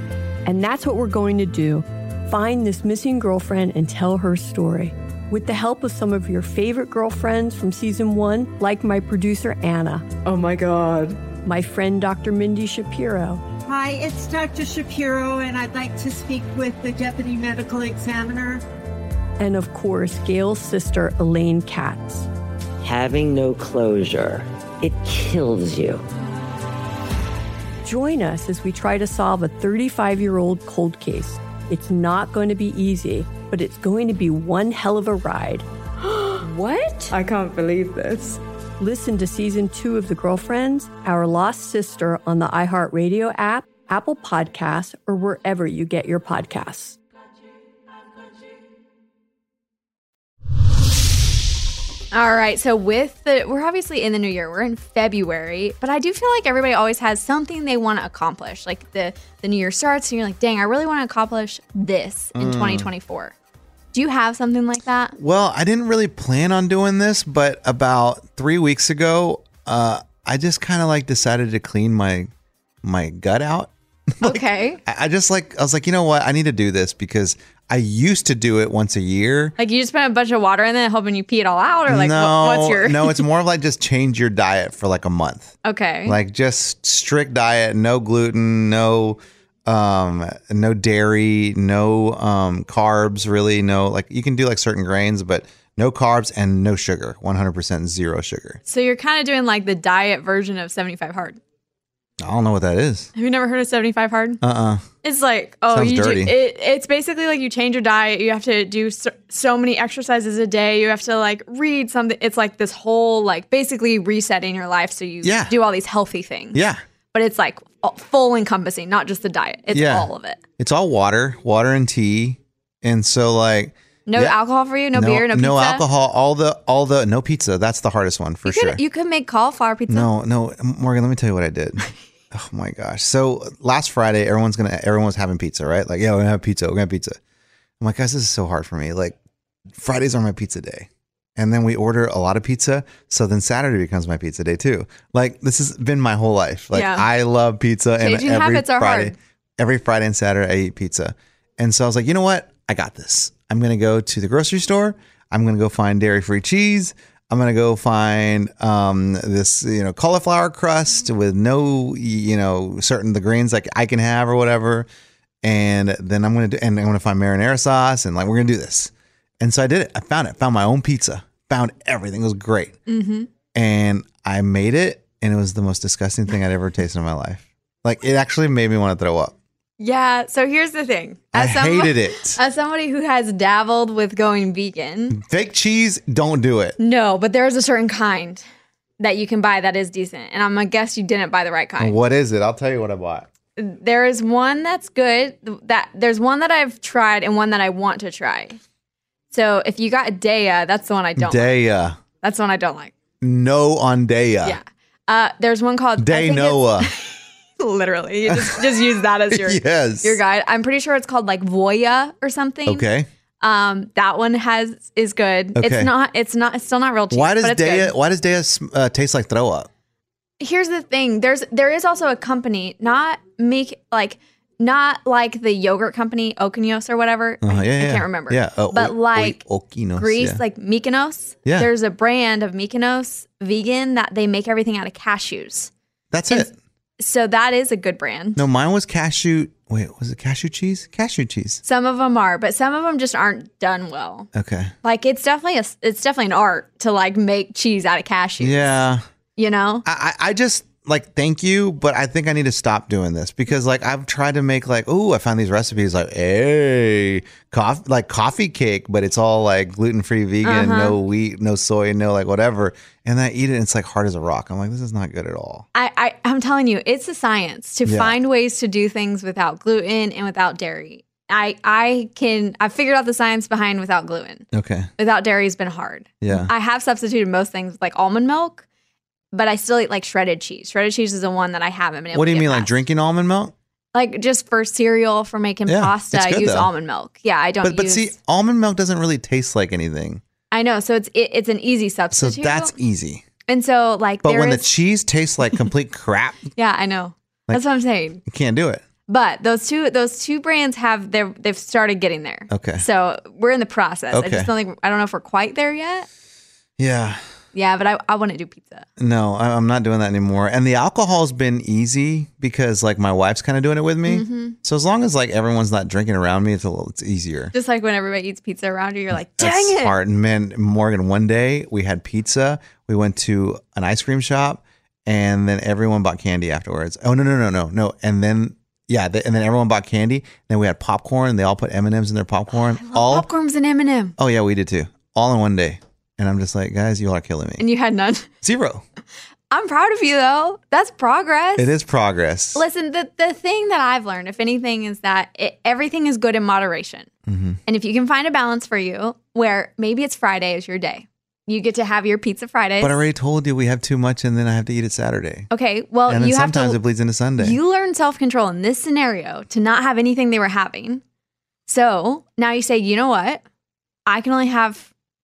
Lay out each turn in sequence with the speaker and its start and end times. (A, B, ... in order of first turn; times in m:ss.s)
0:00.5-0:10.1 A
0:10.2-0:11.4 B
0:11.4-0:13.4 A
0:13.6-0:18.6 C
0:19.4-0:22.3 A
0:22.8-0:26.0 D
0:27.8-0:35.7 A
0:36.4-0:37.2 A
0:37.1-0:38.4 B
0:38.8-0:47.0 A
0:52.1-1:03.3 E
1:02.4-1:02.9 F
1:03.9-1:05.2 E
1:05.2-1:12.3 F
1:12.8-1:19.5 F
1:14.2-1:14.8 E
1:19.6-1:23.3 E
1:21.9-1:38.6 F
1:25.6-1:26.2 E
1:38.7-1:41.4 E
1:42.2-1:43.1 F
1:43.2-1:44.4 E
1:44.4-1:44.8 F
1:45.0-1:56.6 E
1:45.7-1:46.4 F
1:55.2-1:55.5 F
1:56.5-1:56.8 F
1:57.1-2:00.4 E
1:59.7-2:04.4 F
2:04.1-2:05.8 E
2:04.9-2:08.8 F
2:08.4-2:10.1 E
2:09.9-2:17.2 F
2:17.8-2:19.2 F
2:19.7-2:44.9 F
2:26.7-2:27.1 E
2:28.0-2:29.2 E
2:45.4-2:52.8 F
2:52.9-2:53.3 E
2:53.5-2:59.4 F
2:59.8-3:05.2 E
3:01.3-3:02.4 F
3:05.1-3:06.8 F
3:06.8-3:08.4 E
3:09.0-3:12.0 E
3:11.8-3:13.3 F
3:13.6-3:18.6 E
3:19.3-3:21.6 E
3:21.2-3:22.0 F
3:22.2-3:22.9 E
3:23.2-3:24.6 F
3:24.4-3:32.9 E
3:26.0-3:26.9 F
3:28.3-3:28.7 F
3:29.3-3:30.2 F
3:32.7-3:33.1 F
3:33.4-3:37.9 E
3:35.6-3:35.9 F
3:37.1-3:39.7 F
3:40.4-3:49.4 E
3:47.4-3:50.4 F
3:50.0-3:55.7 E
3:56.1-3:56.5 F
3:56.3-3:58.4 E
3:58.4-4:01.6 F
4:01.6-4:04.3 E
4:04.3-4:04.7 F
4:04.8-4:08.8 E
4:08.4-4:09.0 F
4:09.4-4:09.8 E
4:09.8-4:25.7 F
4:20.4-4:21.0 E
4:25.7-4:34.5 E
4:27.8-4:28.2 F
4:34.5-4:34.9 F
4:35.0-4:38.6 E
4:36.2-4:36.5 F
4:39.3-4:42.7 E
4:42.1-4:43.5 F
4:43.9-4:48.1 E
4:45.7-4:46.7 F
4:47.6-4:50.2 F
4:50.5-4:52.7 E
4:52.1-4:53.2 F
4:53.5-4:54.7 E
4:54.2-4:56.5 F
4:56.6-4:58.2 E
4:58.3-4:58.8 F
4:59.1-5:06.1 E
5:02.5-5:02.8 F
5:04.1-5:04.5 F
5:06.8-5:07.2 F
5:07.5-5:08.9 E
5:09.0-5:17.5 F
5:14.1-5:14.6 E
5:17.5-5:20.0 E
5:19.1-5:33.3 F
5:32.5-5:34.2 E
5:34.2-5:37.6 F
5:37.6-5:38.3 E
5:38.4-5:38.8 F
5:39.5-5:41.7 E
5:41.6-5:42.6 F
5:42.6-5:47.1 E
5:47.3-5:47.6 F
5:47.7-5:53.0 E
5:52.8-5:55.5 F
5:55.5-5:56.8 E
5:56.1-5:57.6 F
5:57.4-6:01.0 E
6:01.7-6:03.4 E
6:04.1-6:04.9 E